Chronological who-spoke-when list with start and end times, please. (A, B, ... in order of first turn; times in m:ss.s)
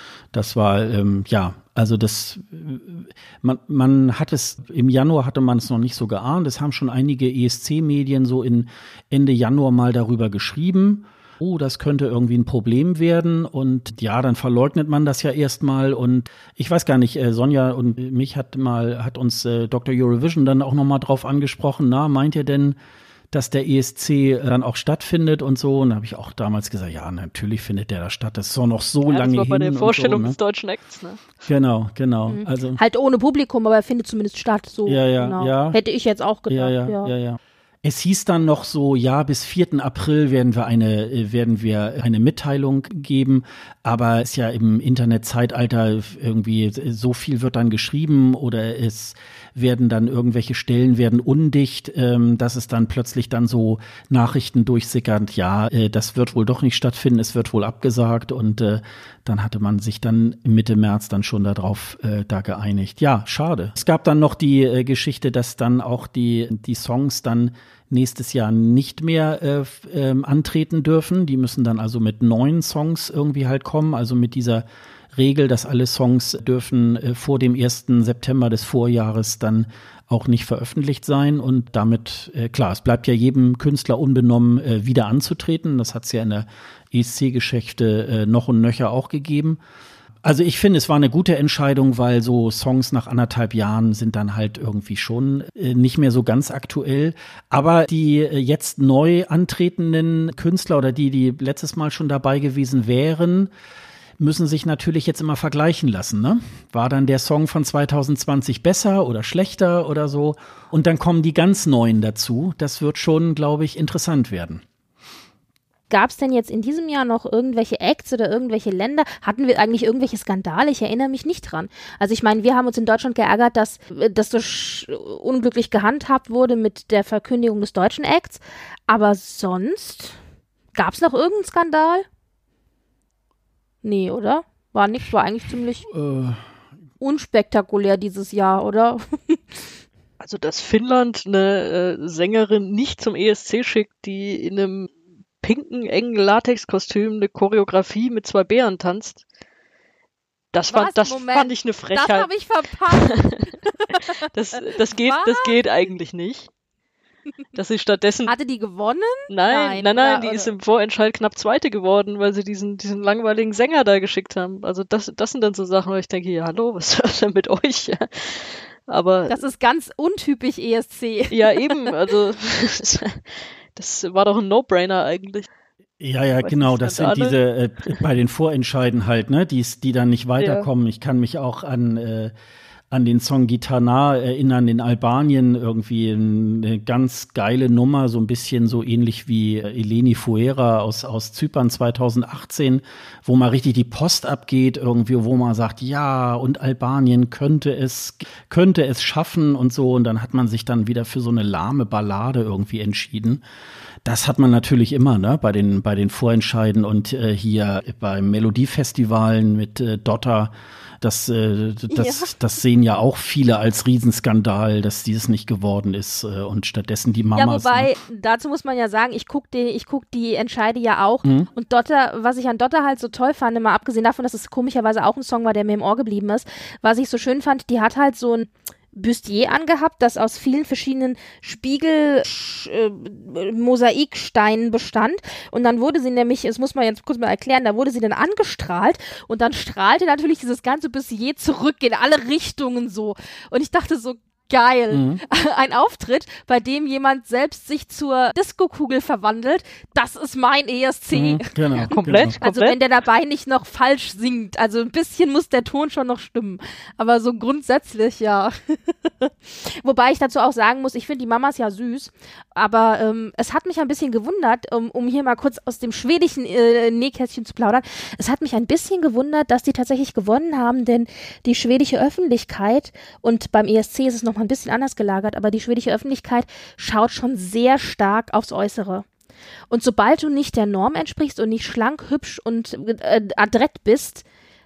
0:00.3-0:22.8 A
0:23.3-0:30.4 A
0:29.1-0:31.2 B
0:31.5-0:32.8 A
0:32.3-0:37.1 C
0:34.9-0:35.8 A
0:36.5-1:29.6 A
1:30.2-1:43.5 A
1:44.2-1:54.6 A
1:55.9-2:10.2 C
2:10.8-2:12.1 C
2:13.8-2:15.9 C
2:15.9-2:16.4 A
2:17.0-2:19.7 C
2:20.2-2:29.2 B
2:30.5-2:32.3 B
2:30.7-2:34.1 C
2:32.9-2:36.5 B
2:35.0-2:35.5 C
2:37.6-2:38.3 B
2:38.3-2:40.5 C
2:39.3-2:49.4 B
2:49.3-2:51.9 C
2:51.3-2:55.5 B
2:56.0-3:02.3 A
2:56.4-2:58.0 B
3:00.4-3:00.7 B
3:02.9-3:23.4 A
3:24.0-3:37.9 A
3:31.9-3:32.3 C
3:37.4-4:39.1 C
4:04.9-4:05.2 A
4:11.1-4:12.4 A
4:11.9-4:12.8 B
4:39.7-4:44.2 C